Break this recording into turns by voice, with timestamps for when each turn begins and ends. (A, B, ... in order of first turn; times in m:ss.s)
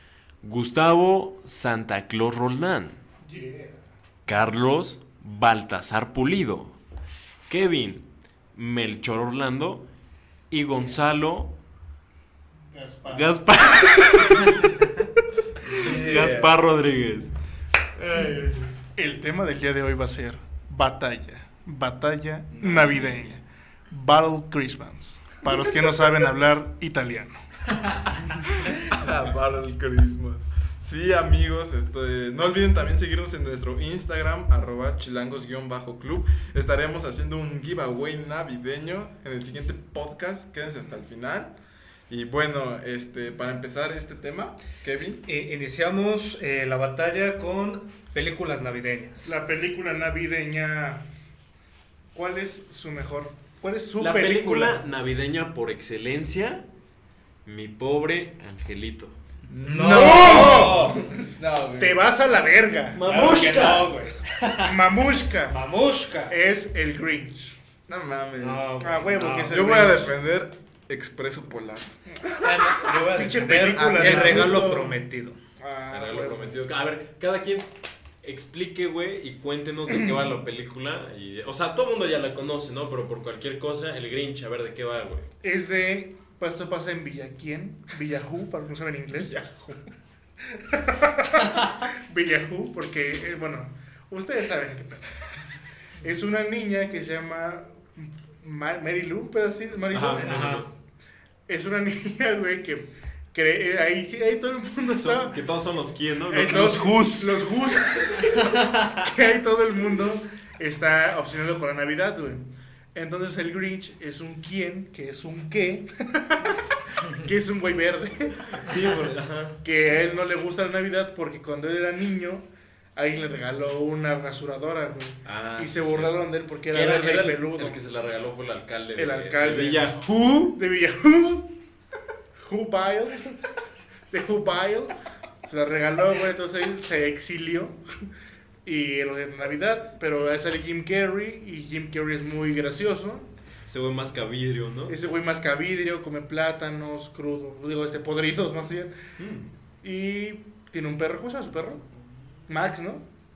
0:00.4-0:03.0 A
0:03.2-0:03.8 B
0:04.2-0:06.8 A
0:07.5-0:09.8 A
0:10.5-0:11.5 A
0:12.7-0:13.4 B
0:13.1-0:14.7 A
0:15.6-0:17.3 A
0:15.7-0:16.6 C
0:18.0-0:18.7 A
0:19.0-0:27.4 B
0:22.5-0:23.3 A
0:28.1-0:28.4 B
0:28.5-0:41.5 C
0:42.1-0:45.2 C
0:45.2-0:49.4 D
0:49.2-0:51.0 B
0:52.1-0:54.8 B
0:54.0-0:56.6 A
0:57.4-0:59.2 A
0:59.5-1:02.0 C
0:59.6-1:01.0 D
0:59.7-1:01.0 B
0:59.8-1:00.5 A
1:01.8-1:03.3 B
1:02.9-1:03.9 A
1:03.0-1:04.7 D
1:04.6-1:05.6 B
1:05.5-1:06.3 D
1:06.2-1:07.5 B
1:07.9-1:08.7 C
1:08.4-1:09.6 D
1:08.8-1:10.2 B
1:09.4-1:11.9 C
1:12.2-1:15.1 B
1:12.4-1:15.4 D
1:13.8-1:14.7 C
1:15.6-1:16.6 B
1:15.9-1:17.7 A
1:18.2-1:25.2 A
1:25.4-1:29.3 B
1:29.1-1:29.8 C
1:30.5-1:35.1 B
1:36.0-1:40.7 B
1:39.9-1:40.7 A
1:40.3-1:40.6 D
1:41.5-1:45.4 B
1:44.9-1:47.4 A
1:46.3-2:02.4 B
1:48.6-1:48.8 D
1:58.6-1:59.6 A
2:03.0-2:07.8 B
2:05.2-2:10.6 A
2:09.0-2:10.0 B
2:10.5-2:11.5 B
2:12.4-2:13.4 B
2:14.1-2:14.9 B
2:15.4-2:17.8 B
2:18.6-2:23.3 B
2:23.6-2:25.0 A
2:24.9-2:28.9 B
2:29.2-2:29.5 A
2:29.8-2:31.8 B
2:32.5-2:33.0 B